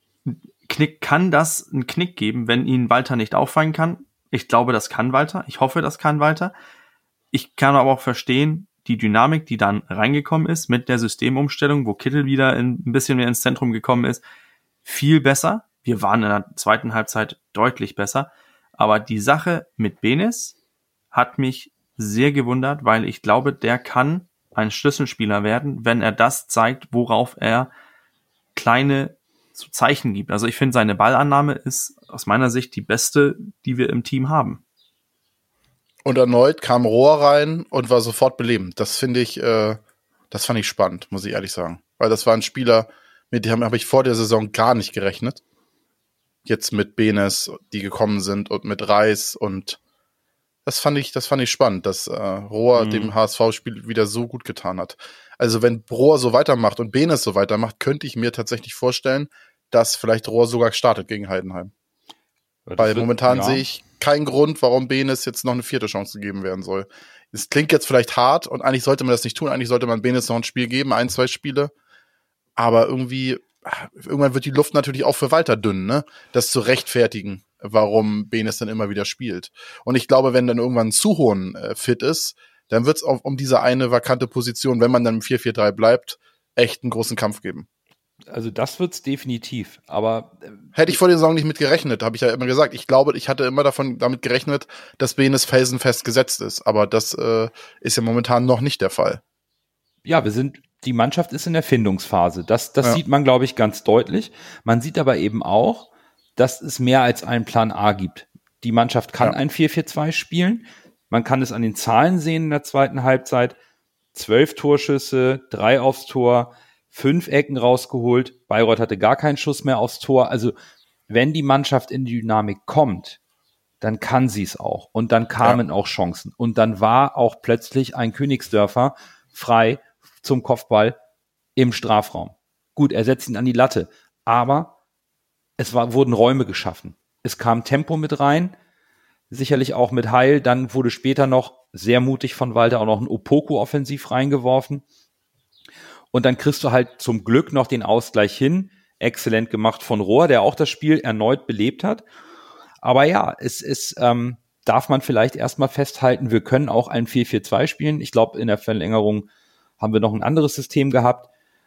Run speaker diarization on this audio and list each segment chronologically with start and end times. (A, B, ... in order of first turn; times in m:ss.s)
0:00.2-0:06.5 A
0:07.3-0:14.2 A
0:14.8-0:20.6 A
0:21.1-0:27.7 A
0:28.5-0:34.6 A
0:36.0-0:39.8 B
0:40.3-0:45.4 B
0:46.4-0:49.8 B
0:50.6-1:01.7 B
0:52.7-0:53.1 C
1:02.6-1:03.6 C
1:02.8-1:11.7 B
1:12.6-1:27.7 B
1:28.3-1:30.7 C
1:30.7-1:39.2 B
1:40.0-1:53.6 C
1:54.1-2:00.5 C
2:01.1-2:03.2 C
2:03.8-2:11.0 C
2:11.6-2:14.7 C
2:15.6-2:18.5 C
2:19.3-2:24.8 C
2:26.1-2:32.0 C
2:32.8-2:39.3 C
2:39.8-2:41.3 C